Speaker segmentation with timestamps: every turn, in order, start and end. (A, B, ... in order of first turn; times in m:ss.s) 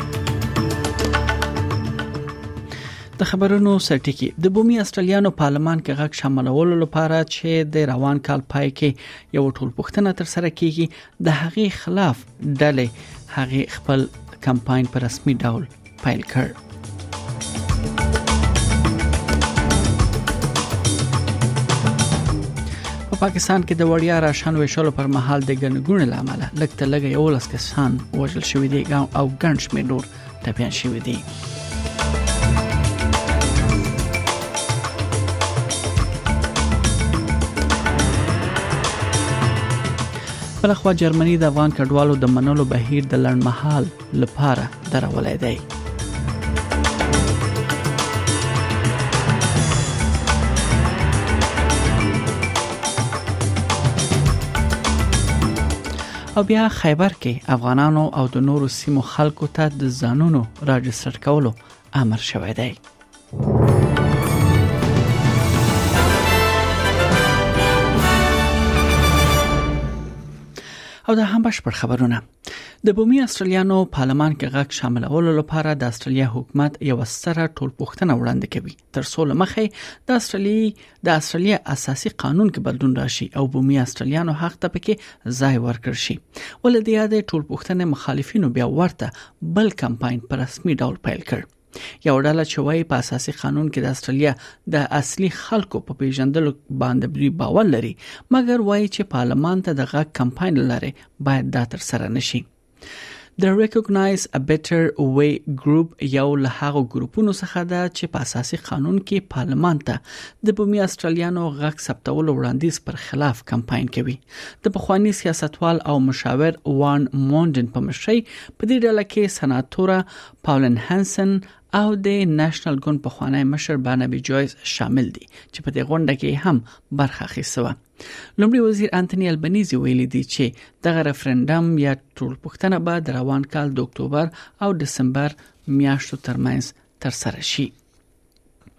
0:03.2-0:16.5 A
0:23.1-0:31.2 A
0:40.6-0:45.6 A
0:56.4-1:02.8 A
1:11.0-1:12.2 A
1:12.8-1:31.4 A
1:32.0-1:42.4 A
1:43.4-2:07.7 A
2:08.4-2:17.7 A